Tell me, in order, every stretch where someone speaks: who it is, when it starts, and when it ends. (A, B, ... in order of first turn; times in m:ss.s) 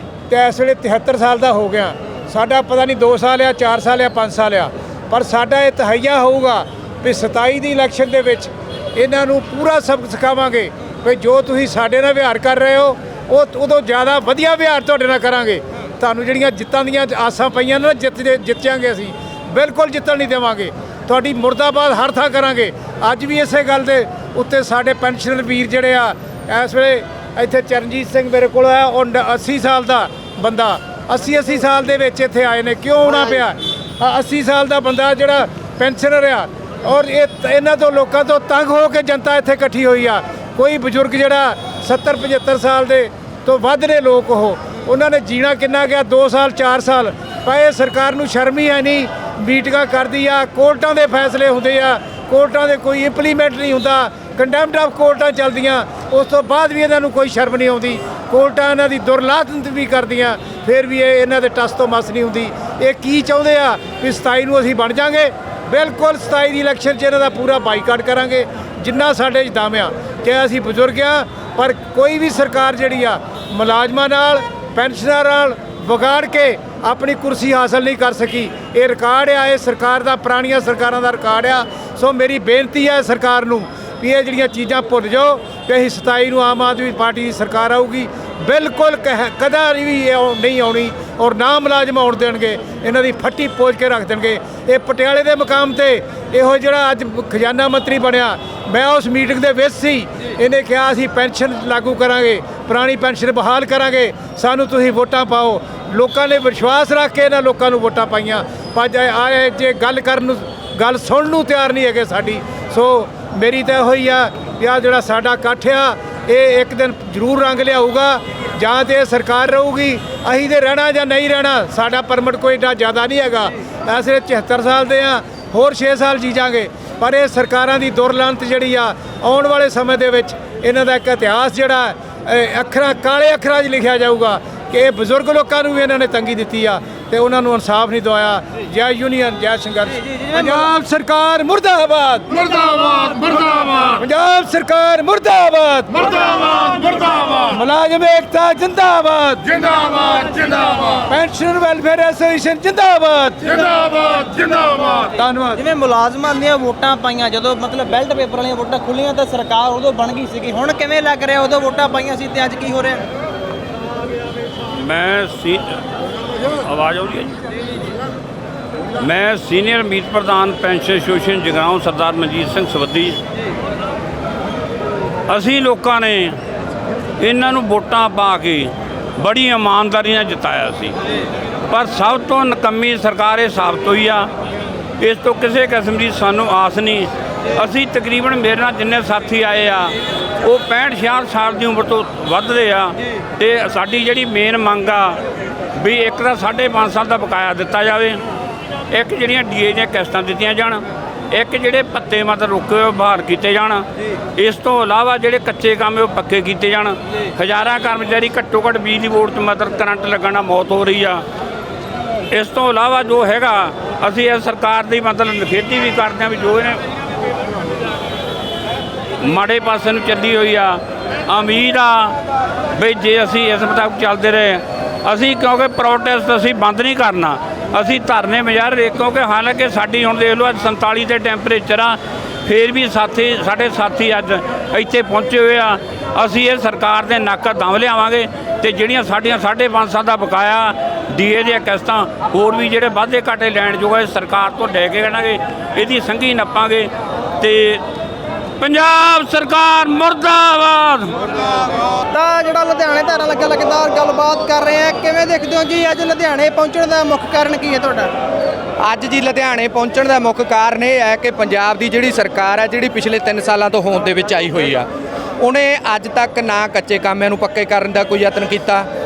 0:00.3-2:22.3 A
2:19.9-2:20.6 B
2:22.3-2:24.0 C
2:24.0-2:26.1 A
2:25.9-2:27.5 C
2:27.5-2:29.5 A
2:29.4-2:31.0 C
2:31.0-2:33.6 A
2:33.4-2:35.1 C
2:35.1-2:35.6 A
2:35.5-2:43.1 B
2:44.7-2:45.8 D
2:46.6-2:47.3 D
2:49.0-2:53.2 D
2:55.3-2:56.4 D
2:57.2-3:00.9 D
3:01.7-3:04.3 D
3:05.0-3:15.2 D
3:15.8-3:18.2 D
3:18.9-3:23.8 D
3:24.4-3:31.2 D
3:32.3-3:36.8 D
3:39.2-3:42.1 D
3:42.7-4:06.9 D
4:07.4-4:07.8 D
4:08.6-4:11.2 D
4:12.1-4:18.1 B
4:18.8-4:24.8 E
4:25.4-4:28.9 E